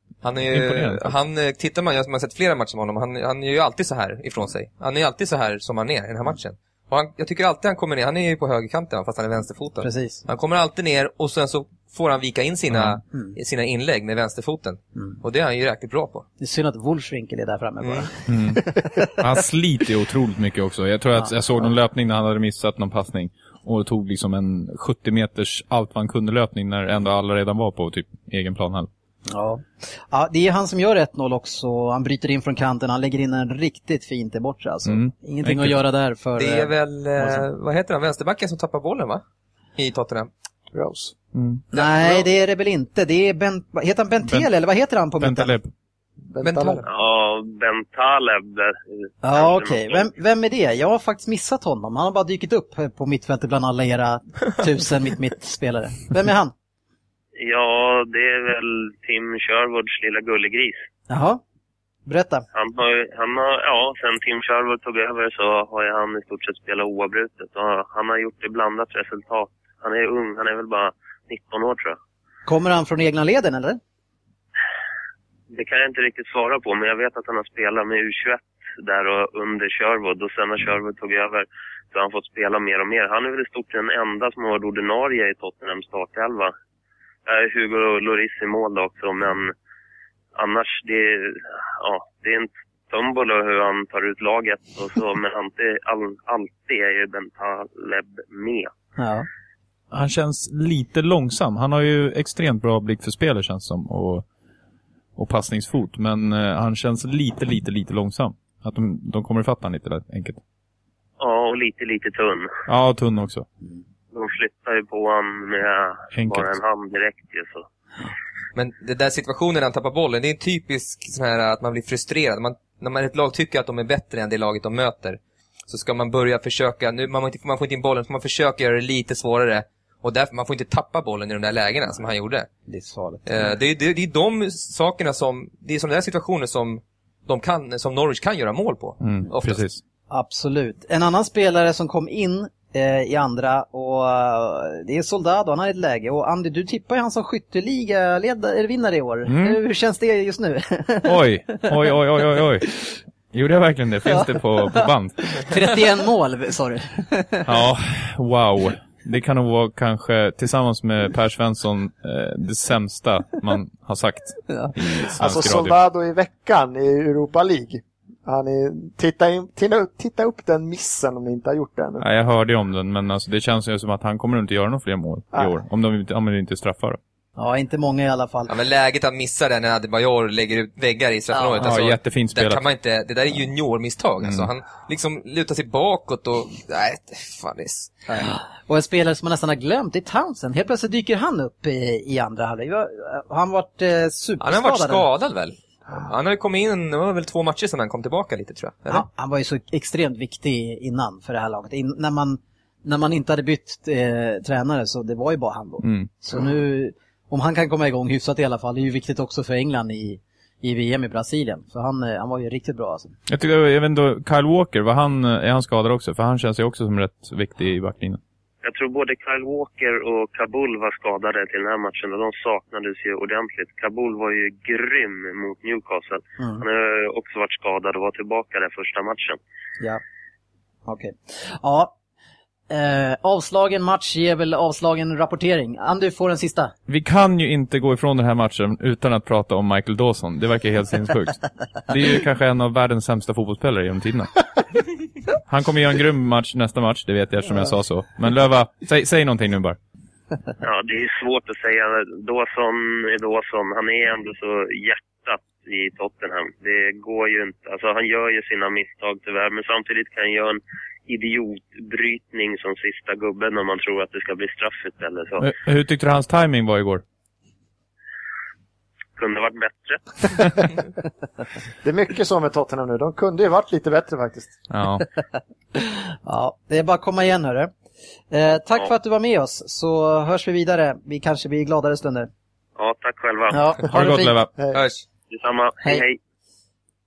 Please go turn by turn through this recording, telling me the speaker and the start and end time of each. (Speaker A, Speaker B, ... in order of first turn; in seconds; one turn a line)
Speaker A: 0.2-16.2
Speaker B: 0.5-1.1
Speaker C: 9.8-10.2
Speaker B: 12.7-13.0
Speaker C: 16.4-19.2
Speaker A: 17.8-18.1
Speaker B: 18.2-28.9
Speaker C: 29.3-37.5
Speaker B: 34.9-35.8
Speaker A: 36.4-39.2
Speaker A: 39.8-40.3
Speaker D: 40.7-41.1
Speaker B: 41.3-41.6
Speaker C: 41.7-45.5
Speaker A: 41.7-42.2
Speaker B: 45.2-45.7
Speaker D: 46.3-46.8
Speaker A: 46.4-46.8
Speaker E: 46.8-50.1
Speaker C: 49.2-56.5
Speaker E: 57.4-60.8
Speaker C: 61.1-61.4
Speaker C: 62.0-62.5
Speaker E: 62.5-72.0
Speaker C: 72.5-73.8
Speaker E: 75.5-86.5
Speaker E: 87.2-89.5
Speaker E: 90.3-98.7
Speaker C: 99.0-99.3
Speaker B: 99.9-104.2
Speaker B: 105.2-110.4
Speaker E: 111.2-112.5
Speaker B: 112.7-113.5
Speaker E: 114.1-117.7
Speaker B: 116.1-116.5
Speaker A: 118.5-132.5
Speaker C: 132.7-133.6
Speaker A: 133.2-139.6
Speaker B: 139.0-139.8
Speaker C: 140.1-151.2
Speaker B: 149.2-149.6
Speaker B: 151.0-152.8
Speaker B: 153.3-155.3
Speaker C: 154.0-157.5
Speaker B: 157.4-165.8
Speaker C: 164.5-164.7
Speaker D: 165.2-172.0
Speaker B: 172.0-177.0
Speaker C: 177.4-178.5
Speaker A: 178.5-188.0
Speaker C: 181.3-181.7
Speaker B: 181.6-182.6
Speaker B: 184.2-184.5
Speaker C: 188.1-195.1
Speaker A: 194.4-199.0
Speaker C: 198.9-213.1
Speaker B: 205.8-206.1
Speaker B: 213.3-218.2
Speaker E: 218.6-229.4
Speaker C: 226.4-226.6
Speaker C: 230.9-231.9
Speaker C: 232.7-236.7
Speaker B: 236.9-244.3
Speaker B: 245.5-249.8
Speaker E: 250.6-265.5
Speaker B: 265.4-267.0
Speaker E: 269.2-270.1
Speaker D: 271.8-274.6
Speaker B: 274.7-275.0
Speaker C: 275.8-277.7
Speaker C: 278.3-282.3
Speaker E: 282.8-283.7
Speaker C: 283.5-284.4
Speaker B: 283.9-284.6
Speaker D: 284.6-284.8
Speaker A: 284.7-285.0
Speaker E: 285.3-286.2